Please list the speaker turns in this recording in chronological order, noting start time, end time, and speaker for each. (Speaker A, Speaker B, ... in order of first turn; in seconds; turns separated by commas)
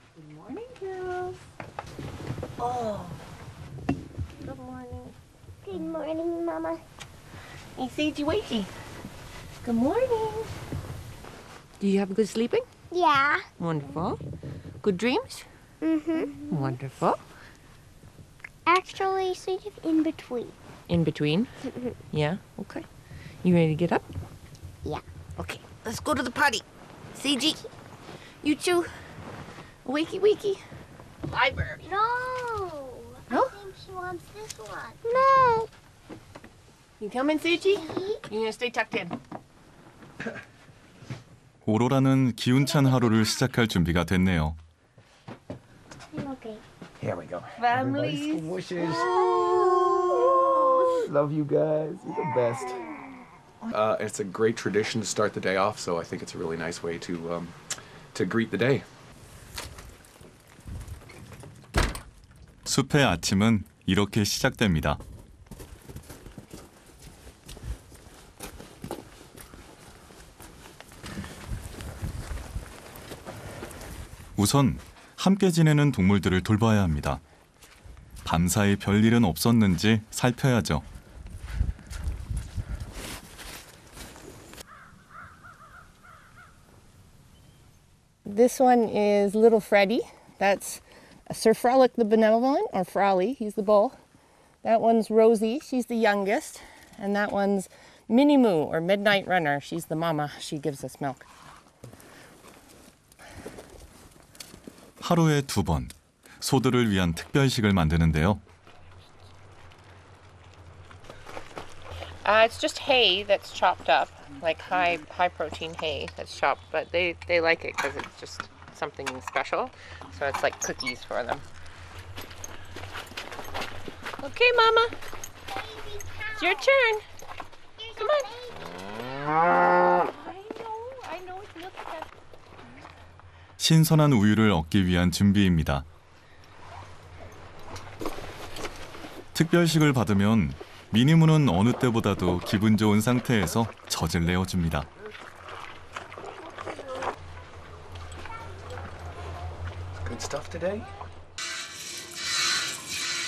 Speaker A: 0.2-1.4, Speaker A: 2.6-3.1, Speaker B: 4.4-5.1, Speaker B: 5.6-6.8, Speaker A: 7.8-8.7, Speaker A: 9.6-10.5, Speaker A: 11.8-12.7, Speaker B: 12.9-13.5, Speaker A: 13.6-14.2, Speaker A: 14.8-15.5, Speaker B: 15.8-16.7, Speaker A: 16.3-17.2, Speaker B: 18.6-20.6, Speaker A: 20.9-21.5, Speaker B: 21.6-22.0, Speaker A: 22.1-22.9, Speaker A: 23.4-24.0, Speaker A: 25.4-27.6, Speaker A: 28.4-28.9, Speaker A: 29.8-30.6, Speaker A: 31.3-31.8, Speaker B: 31.8-35.7, Speaker A: 37.0-39.1, Speaker B: 37.7-38.2, Speaker C: 41.6-44.6, Speaker B: 46.1-46.6, Speaker D: 47.0-52.8, Speaker A: 47.6-48.5, Speaker B: 48.8-50.9, Speaker D: 53.7-57.6, Speaker D: 58.1-58.8, Speaker C: 62.6-65.0, Speaker C: 74.4-77.2, Speaker C: 78.2-80.8, Speaker A: 88.2-94.0, Speaker A: 94.6-101.2, Speaker C: 105.0-108.4, Speaker A: 112.2-121.4, Speaker A: 124.2-124.9, Speaker B: 125.5-126.7, Speaker A: 126.4-127.0, Speaker B: 127.8-128.6, Speaker A: 128.0-128.3, Speaker A: 130.0-132.1, Speaker C: 133.6-135.8, Speaker C: 139.3-144.9, Speaker D: 150.0-150.9